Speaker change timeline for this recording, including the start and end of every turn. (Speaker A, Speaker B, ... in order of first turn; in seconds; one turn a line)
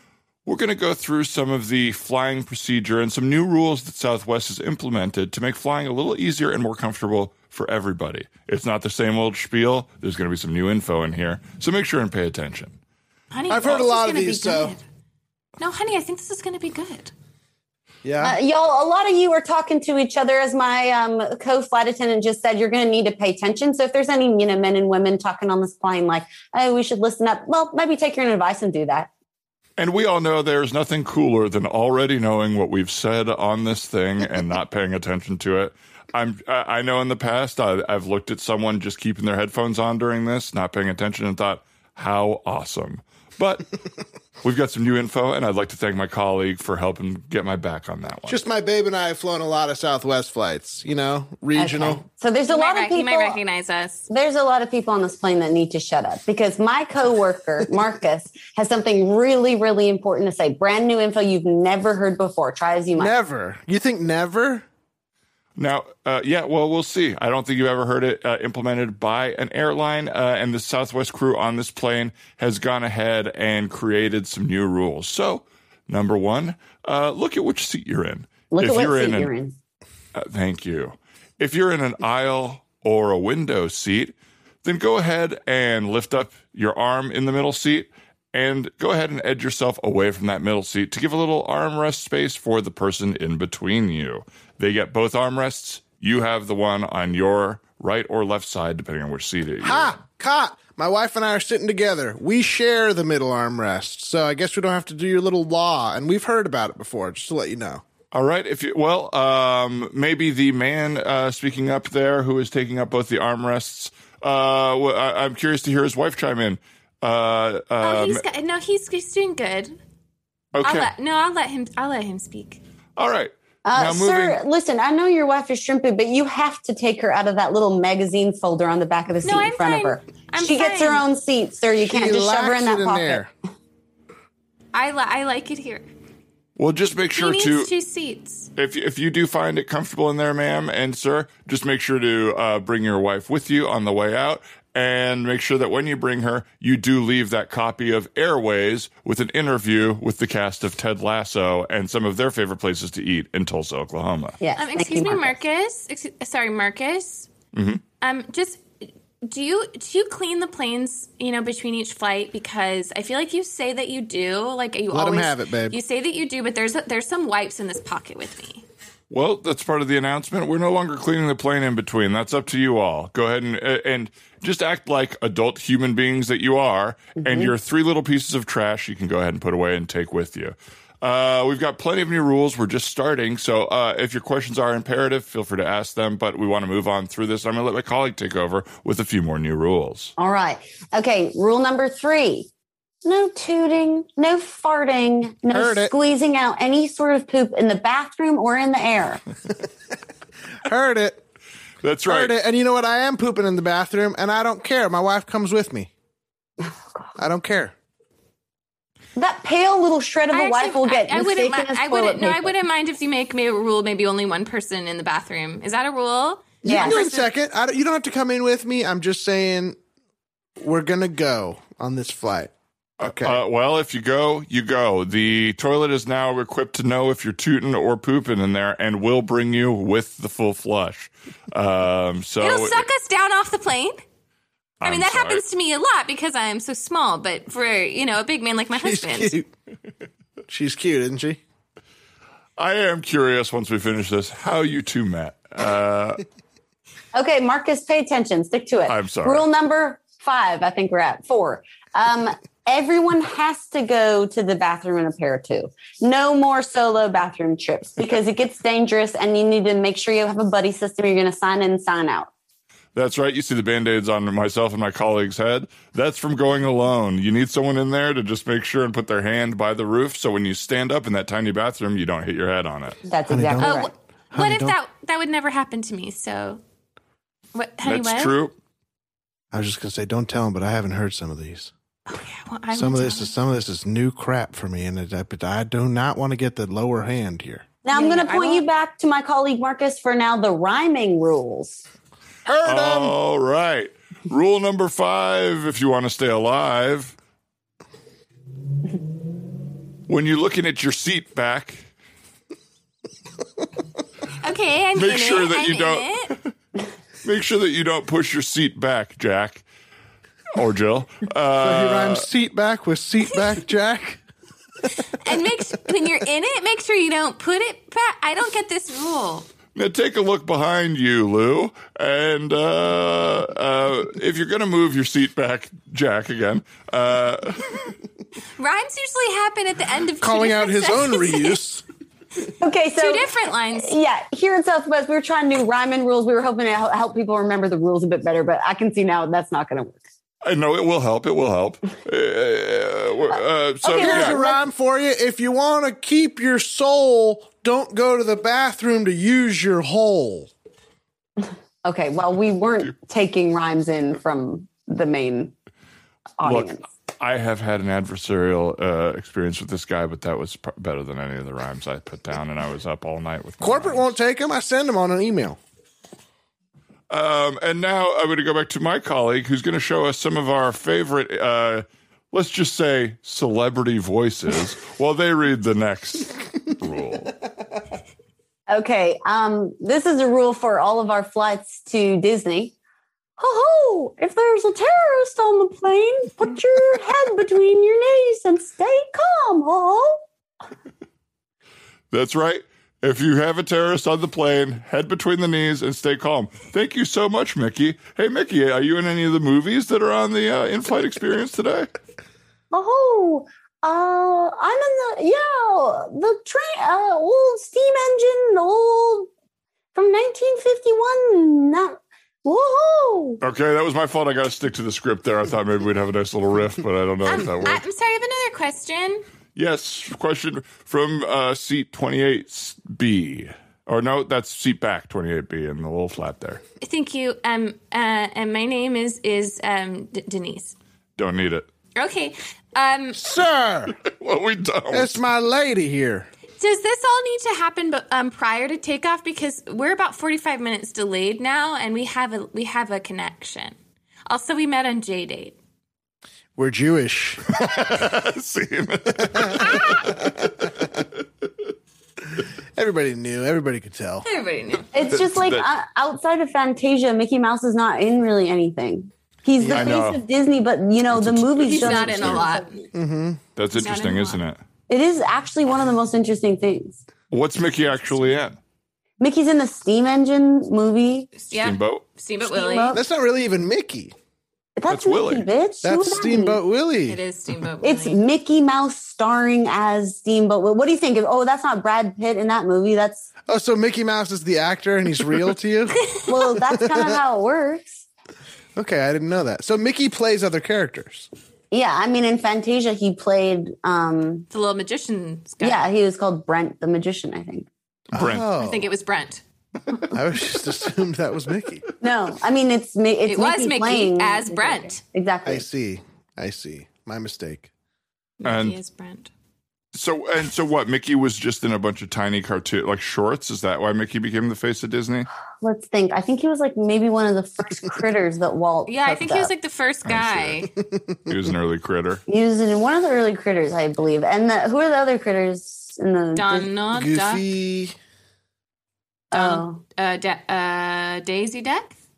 Speaker A: 0.5-12.8
Speaker B: 13.3-14.8
Speaker C: 13.5-14.8
Speaker B: 15.6-17.1
Speaker C: 18.0-18.4
Speaker D: 18.2-29.1
Speaker A: 29.8-43.8
Speaker A: 44.4-48.4
Speaker C: 48.3-52.0
Speaker D: 51.5-53.4
Speaker B: 52.5-54.1
Speaker D: 54.1-63.1
Speaker C: 63.0-64.6
Speaker A: 65.6-79.3
Speaker D: 78.5-79.5
Speaker A: 80.1-100.0
Speaker C: 99.6-107.8
Speaker A: 108.1-118.2
Speaker B: 117.8-119.7
Speaker A: 120.5-120.9
Speaker B: 120.6-122.6
Speaker A: 123.0-124.4
Speaker D: 123.6-133.2
Speaker B: 129.2-131.0
Speaker C: 131.8-133.3
Speaker B: 134.7-135.9
Speaker A: 136.6-137.7
Speaker B: 137.2-138.5
Speaker A: 138.6-154.4
Speaker D: 154.4-155.4
Speaker B: 154.6-157.3
Speaker A: 157.5-157.8
Speaker B: 158.0-168.7
Speaker C: 164.9-165.8
Speaker A: 169.1-190.1
Speaker D: 190.2-192.5
Speaker D: 193.0-199.2
Speaker C: 195.5-195.9
Speaker C: 200.6-201.2
Speaker A: 201.8-202.3
Speaker C: 202.1-205.9
Speaker D: 206.6-207.1
Speaker C: 207.2-207.7
Speaker D: 209.2-212.5
Speaker B: 210.3-217.3
Speaker D: 216.6-217.0
Speaker C: 216.6-219.8
Speaker C: 220.6-223.4
Speaker A: 223.0-232.9
Speaker B: 232.4-234.0
Speaker A: 234.8-235.4
Speaker B: 234.8-239.3
Speaker C: 238.8-239.5
Speaker C: 240.5-241.4
Speaker A: 242.6-246.2
Speaker D: 247.1-262.3
Speaker A: 248.9-249.4
Speaker A: 262.9-273.0
Speaker D: 273.1-273.9
Speaker C: 273.3-274.7
Speaker B: 273.6-276.6
Speaker B: 277.5-278.3
Speaker A: 277.8-278.6
Speaker C: 279.5-281.7
Speaker B: 282.1-283.3
Speaker C: 282.7-287.6
Speaker D: 287.8-291.8
Speaker B: 287.9-288.6
Speaker C: 292.4-293.2
Speaker A: 292.6-297.1
Speaker A: 300.1-301.9
Speaker B: 304.4-306.3
Speaker A: 304.9-306.5
Speaker A: 307.2-309.6
Speaker A: 310.5-312.3
Speaker C: 311.6-314.2
Speaker B: 315.1-319.5
Speaker A: 319.7-327.9
Speaker B: 328.6-331.6
Speaker C: 330.2-331.8
Speaker D: 332.6-340.0
Speaker B: 333.0-333.9
Speaker A: 340.4-344.4
Speaker D: 343.8-344.6
Speaker C: 343.9-350.5
Speaker D: 351.8-355.5
Speaker D: 356.4-356.9
Speaker A: 356.4-364.1
Speaker C: 363.6-365.6
Speaker A: 367.1-377.4
Speaker D: 378.7-382.7
Speaker D: 383.4-390.2
Speaker A: 392.1-401.9
Speaker D: 402.7-409.3
Speaker D: 409.9-413.4
Speaker A: 413.4-417.8
Speaker B: 417.2-419.2
Speaker A: 419.6-426.6
Speaker B: 426.8-430.8
Speaker A: 431.2-431.7
Speaker B: 431.9-433.3
Speaker C: 433.2-433.9
Speaker A: 434.0-435.2
Speaker C: 434.9-436.3
Speaker B: 436.6-443.8
Speaker B: 444.3-445.6
Speaker C: 446.6-447.6
Speaker A: 447.5-450.3
Speaker C: 449.3-450.9
Speaker C: 452.7-454.2
Speaker B: 454.2-454.9
Speaker D: 454.9-462.7
Speaker A: 455.1-455.6
Speaker C: 459.6-460.0
Speaker A: 459.7-460.2
Speaker A: 461.1-462.4
Speaker B: 461.6-462.8
Speaker C: 462.9-463.4
Speaker A: 463.6-464.6
Speaker B: 463.7-464.4
Speaker D: 464.9-467.0
Speaker A: 467.3-468.6
Speaker D: 469.2-471.3
Speaker B: 471.4-472.9
Speaker A: 471.5-472.0
Speaker D: 472.4-473.0
Speaker C: 472.9-474.1
Speaker D: 474.8-476.6
Speaker A: 474.9-475.4
Speaker C: 475.8-477.2
Speaker B: 477.1-478.2
Speaker D: 477.8-483.3
Speaker C: 483.5-486.0
Speaker D: 486.2-488.1
Speaker C: 486.8-487.2
Speaker C: 488.8-491.3
Speaker D: 491.7-494.4
Speaker B: 494.5-495.9
Speaker D: 495.6-497.7
Speaker C: 498.1-498.9
Speaker A: 498.1-498.5
Speaker B: 498.6-499.4
Speaker C: 500.1-501.8
Speaker D: 502.0-505.7
Speaker B: 503.3-505.0
Speaker C: 505.4-507.7
Speaker B: 508.4-509.3
Speaker A: 508.4-508.8
Speaker A: 509.9-515.3
Speaker D: 515.6-519.5
Speaker B: 518.9-520.7
Speaker A: 520.0-520.7
Speaker A: 521.3-522.2
Speaker D: 522.3-526.7
Speaker B: 526.3-527.5
Speaker C: 526.9-528.0
Speaker D: 529.3-529.8
Speaker B: 529.3-532.0